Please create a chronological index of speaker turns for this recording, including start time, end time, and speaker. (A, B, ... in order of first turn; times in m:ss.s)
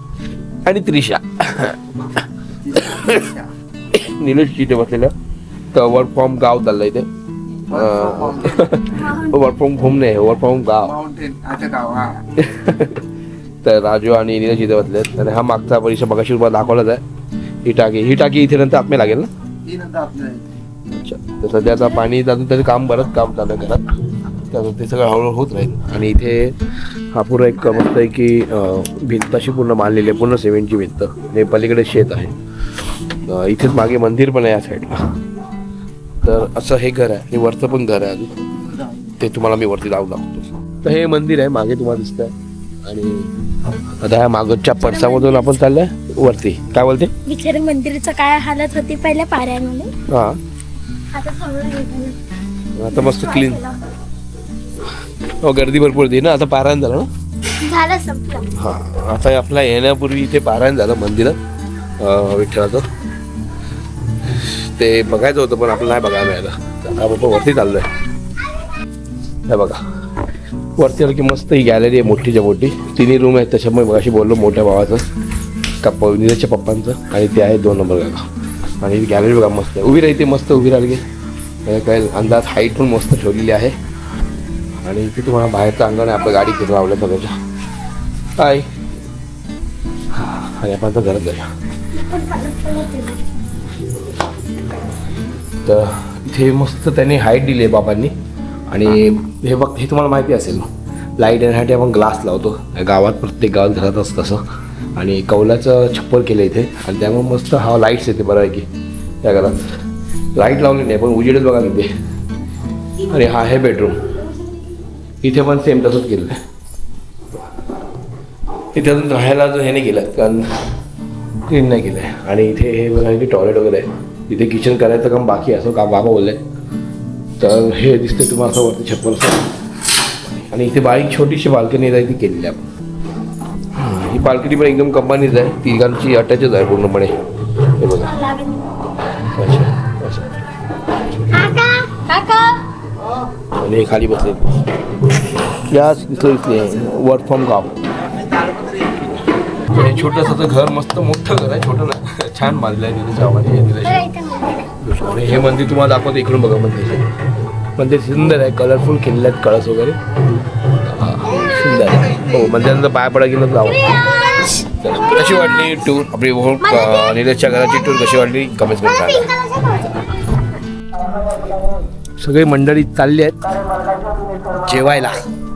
0:00.6-0:01.8 A
0:02.6-0:03.5 B
0:02.9-0:03.2 A
0:03.9-0:05.1 A
0:05.7-0:07.1 A
0:07.7-0:08.6 B
0:07.7-0:11.0 A
0:10.8-0:12.2 B
0:12.4-0:13.0 A
0:13.6-0:17.0 A
0:17.6-0:19.3 A
0:19.7-0:20.4 B
0:20.9-0:23.9 A
0:24.5-0:26.6 A
0:27.1-0:32.4 A
0:33.2-0:35.1 A
0:36.2-0:38.3 A
0:39.2-0:43.3 A
0:44.0-0:47.1 A
0:47.3-0:49.9 C
0:50.1-0:50.4 A
0:51.2-0:52.1 C
0:52.8-0:53.7 A
0:55.4-0:57.1 A
0:57.7-0:58.4 C
0:58.6-1:01.4 A
1:02.0-1:02.8 A
1:04.3-1:07.9 A
1:09.5-1:09.8 A
1:10.8-1:15.1 A
1:15.8-1:18.3 A
1:18.8-1:21.0 A
1:21.6-1:23.8 A
1:24.8-1:27.3 A
1:28.4-1:28.7 A
1:30.1-1:31.5 A
1:32.0-1:33.2 C
1:35.6-1:38.1 A
1:38.7-1:44.4 A
1:45.0-1:48.7 A
1:49.2-1:49.6 A
1:50.4-1:51.9 A
1:53.0-1:54.0 A
1:55.2-1:56.4 A
1:58.8-2:00.5 A
2:01.5-2:06.4 A
2:07.4-2:09.5 A
2:10.2-2:12.6 A
2:13.8-2:17.1 A
2:17.8-2:18.2 A
2:18.2-2:18.5 C
2:19.3-2:20.4 A
2:21.4-2:22.6 C
2:23.6-2:24.6 A
2:25.5-2:27.7 A
2:28.2-2:29.0 B
2:29.7-2:37.1 A
2:37.8-2:40.0 A
2:40.8-2:49.7 A
2:52.2-2:53.4 A
2:54.6-2:55.2 A